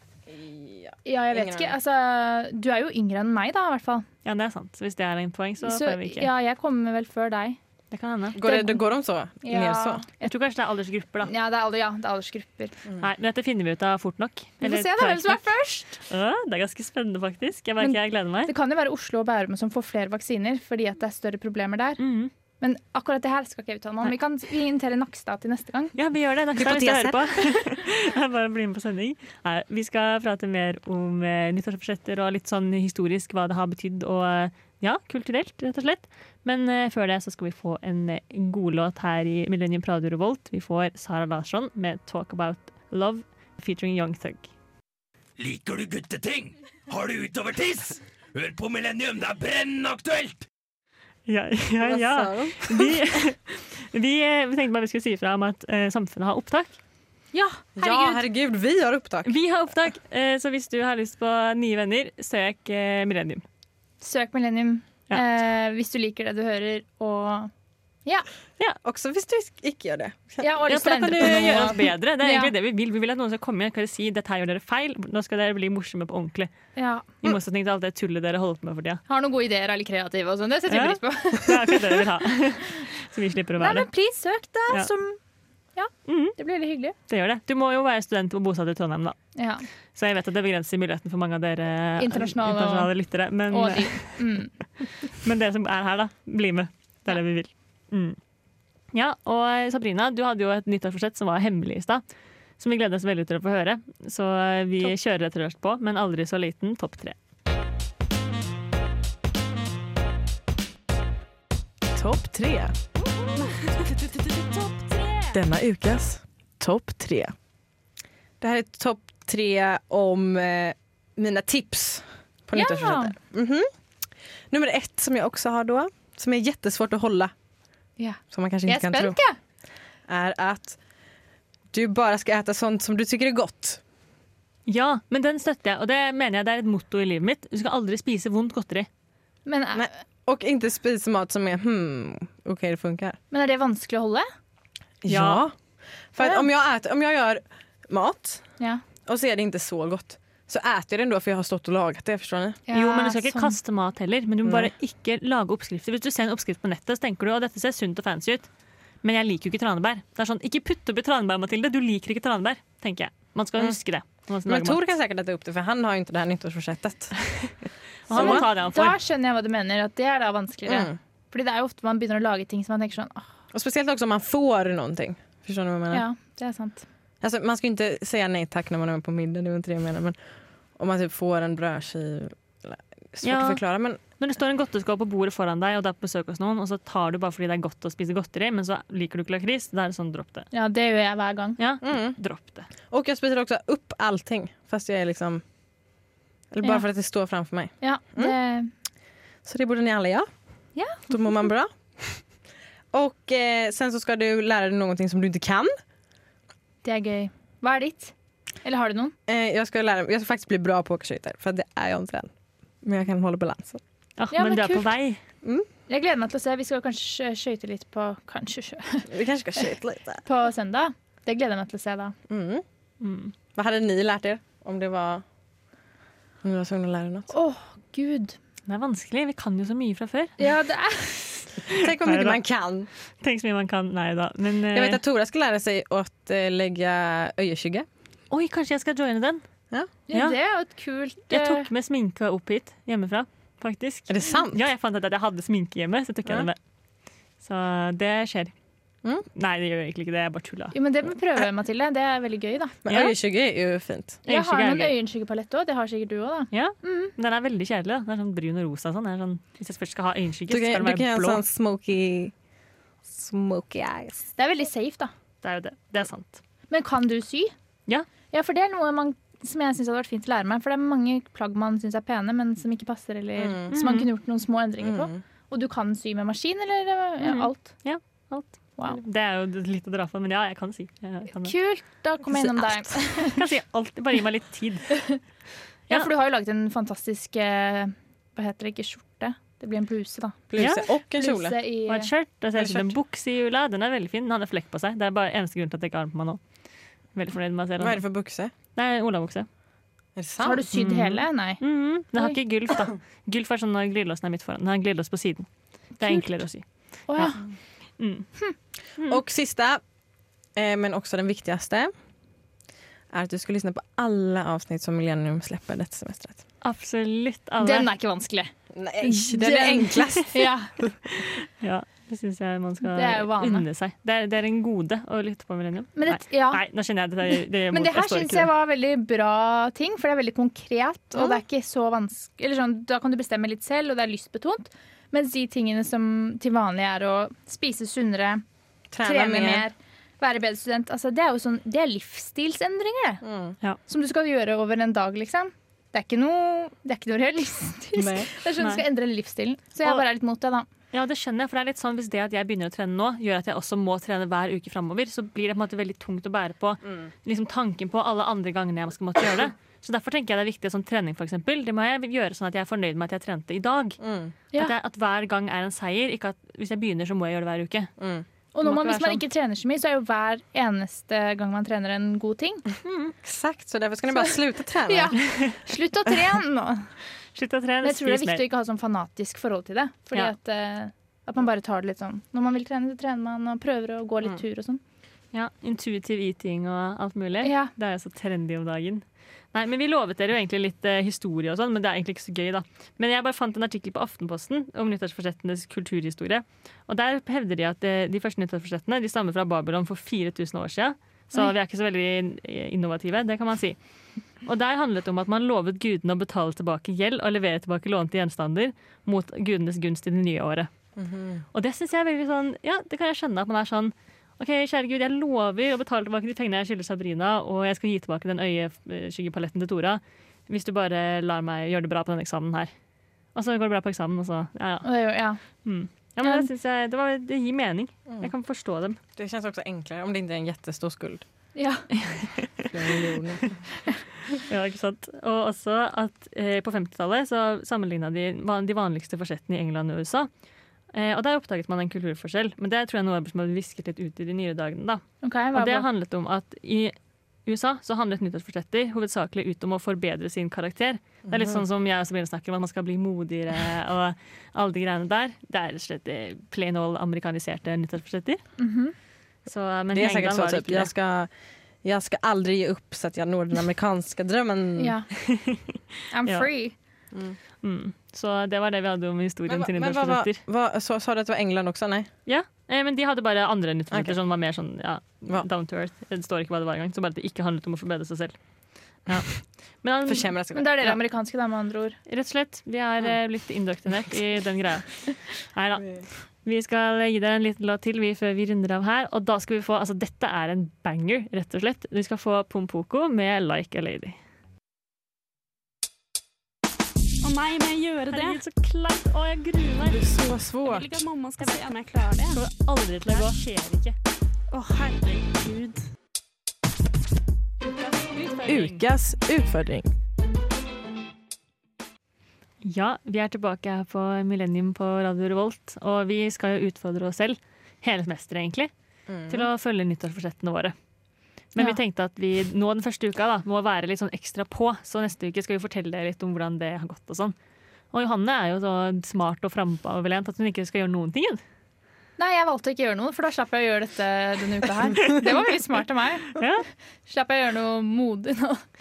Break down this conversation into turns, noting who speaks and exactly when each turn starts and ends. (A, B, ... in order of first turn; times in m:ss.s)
0:00.3-0:01.7 A
0:01.0-0:04.0 B
0:04.2-0:06.3 C
0:05.6-0:07.6 B
0:07.9-0:08.4 C
0:08.3-0:10.0 A
0:08.4-0:08.8 B
0:09.4-0:10.3 B
0:10.2-0:11.3 C
0:11.3-0:12.8 B
0:13.0-0:15.4 C
0:14.6-0:16.0 B
0:16.0-0:18.5 C
0:17.8-0:22.0 B
0:22.0-0:22.3 C
0:22.6-0:25.9 B
0:26.0-0:44.5 C
0:26.6-0:27.2 A
0:45.4-0:50.4 D
0:51.3-0:56.8 C
0:51.8-0:53.0 A
0:57.3-0:58.2 B
0:57.8-0:59.3 A
0:59.2-1:03.4 C
1:04.0-1:07.5 B
1:08.8-1:10.5 A
1:10.4-1:12.5 B
1:10.7-1:16.5 C
1:16.8-1:17.2 B
1:17.2-1:19.0 C
1:19.1-1:21.9 B
1:20.7-1:23.9 C
1:23.6-1:25.2 B
1:25.8-1:26.9 B
1:26.1-1:26.4 C
1:27.1-1:29.2 C
1:29.4-1:29.6 B
1:29.9-1:34.2 C
1:32.0-1:32.9 B
1:33.5-1:34.5 B
1:35.1-1:38.2 C
1:38.9-1:42.0 C
1:42.6-1:47.2 C
1:51.9-1:52.7 A
1:55.3-1:57.3 A
1:58.4-2:03.7 A
2:02.5-2:03.1 B
2:04.5-2:07.3 A
2:08.0-2:09.4 B
2:08.3-2:09.2 A
2:10.1-2:10.8 A
2:11.7-2:13.8 A
2:14.7-2:18.9 C
2:19.4-2:20.0 B
2:19.7-2:23.2 A
2:23.3-2:24.2 B
2:25.0-2:25.5 A
2:25.1-2:25.4 C
2:26.1-2:28.4 A
2:26.2-2:26.4 B
2:29.0-2:32.6 A
2:32.7-2:33.5 B
2:32.7-2:38.5 C
2:34.4-2:34.7 A
2:39.0-2:44.8 C
2:44.4-2:47.2 A
2:48.1-2:49.0 C
2:48.1-2:48.4 A
2:48.1-2:53.3 B
2:50.6-2:51.0 A
2:53.5-2:56.0 A
2:55.9-2:56.8 B
2:57.2-3:00.2 A
3:00.8-3:04.0 A
3:03.2-3:10.5 C
3:10.5-3:11.6 B
3:11.6-3:12.7 C
3:11.8-3:12.2 A
3:12.9-3:15.4 A
3:16.5-3:18.3 A
3:17.8-3:18.7 B
3:19.4-3:20.3 A
3:20.7-3:21.1 B
3:21.1-3:22.2 A
3:22.9-3:25.7 A
3:26.8-3:29.1 B
3:29.3-3:32.3 A
3:32.8-3:33.8 A
3:34.2-3:35.2 C
3:34.3-3:34.9 B
3:35.9-3:39.6 B
3:39.1-3:40.2 A
3:40.2-3:42.1 B
3:42.3-3:42.6 A
3:43.0-3:43.3 C
3:43.5-3:45.2 A
3:46.4-3:47.3 A
3:47.3-3:48.4 B
3:48.7-3:50.4 C
3:50.4-3:51.5 B
3:51.7-3:52.9 A
3:51.8-3:52.4 C
3:53.2-3:55.0 C
3:54.7-3:57.8 A
3:58.3-3:59.4 C
4:00.1-4:01.7 B
4:00.1-4:00.4 C
4:01.3-4:06.6 C
4:04.1-4:04.6 A
4:07.4-4:08.5 C
4:09.3-4:10.8 C
4:10.7-4:12.8 B
4:12.8-4:14.2 A
4:12.9-4:13.1 C
4:14.3-4:14.9 C
4:14.3-4:17.1 B
4:16.5-4:21.4 C
4:20.5-4:22.3 A
4:23.1-4:24.2 A
4:24.4-4:25.1 B
4:25.4-4:26.4 C
4:26.7-4:27.5 B
4:28.3-4:37.7 B
4:33.4-4:33.7 A
4:33.7-4:34.1 C
4:34.8-4:35.2 A
4:37.2-4:41.5 C
4:41.3-4:43.4 B
4:42.3-4:42.9 A
4:43.2-4:45.2 C
4:45.9-4:52.1 B
4:50.5-4:51.6 A
4:50.6-4:50.8 C
4:51.9-4:56.4 C
4:52.5-4:52.9 A
4:57.1-4:58.0 C
4:57.8-4:58.5 A
4:58.7-4:59.5 C
5:00.2-5:00.6 A
5:00.4-5:01.6 B
5:00.7-5:07.4 C
5:07.1-5:07.4 B
5:08.0-5:08.3 C
5:09.0-5:09.8 A
5:10.6-5:11.9 A
5:13.1-5:16.4 A
5:16.6-5:17.9 C
5:17.6-5:20.7 B
5:18.7-5:20.9 A
5:21.2-5:28.5 C
5:22.8-5:23.6 B
5:26.0-5:26.6 B
5:27.7-5:38.4 B
5:31.1-5:31.4 A
5:38.9-5:39.6 A
5:39.0-5:43.2 B
5:43.2-5:43.6 A
5:43.9-5:50.7 B
5:47.9-5:48.3 A
5:48.6-5:48.8 C
5:50.9-6:04.0 C
6:04.0-6:04.3 A
6:04.5-6:07.9 C
6:08.0-6:08.2 A
6:08.5-6:12.6 B
6:08.6-6:09.2 C
6:12.8-6:13.1 C
6:13.2-6:15.2 A
6:14.9-6:16.9 B
6:17.3-6:18.4 C
6:17.8-6:24.8 B
6:25.3-6:43.8 C
6:27.4-6:27.7 B
6:44.4-6:50.7 C
6:51.0-6:51.4 A
6:51.5-7:02.7 C
7:03.3-7:05.0 C
7:04.8-7:05.4 B
7:05.6-7:09.0 C
7:06.2-7:06.5 B
7:09.2-7:11.2 A
7:11.6-7:11.8 B
7:12.6-7:13.5 A
7:14.4-7:20.3 C
7:20.9-7:25.0 C
7:25.2-7:25.8 B
7:25.5-7:26.9 C
7:27.4-7:38.4 C
7:31.3-7:31.6 A
7:38.6-7:38.9 B
7:39.5-7:40.9 C
7:39.9-7:41.3 A
7:41.8-7:44.9 A
7:44.8-7:45.1 B
7:45.3-7:45.6 C
7:46.1-7:46.7 B
7:47.1-7:47.4 A
7:47.6-7:50.4 C
7:49.5-7:52.1 A
7:52.3-7:58.3 C
7:53.9-7:54.2 A
7:59.0-8:01.0 C
8:00.0-8:00.7 A
8:00.5-8:02.0 B
8:02.1-8:14.2 C
8:17.2-8:18.4 E
8:18.1-8:20.0 C
8:19.8-8:20.9 A
8:20.6-8:22.4 E
8:22.3-8:23.9 C
8:24.5-8:25.8 E
8:27.7-8:28.8 C
8:28.4-8:29.9 A
8:32.6-8:38.7 C
8:39.1-8:39.5 A
8:39.3-8:40.7 C
8:41.5-8:47.3 C
8:47.9-8:51.4 C
8:52.2-8:56.4 B
8:56.4-8:56.6 C
8:57.0-8:58.6 B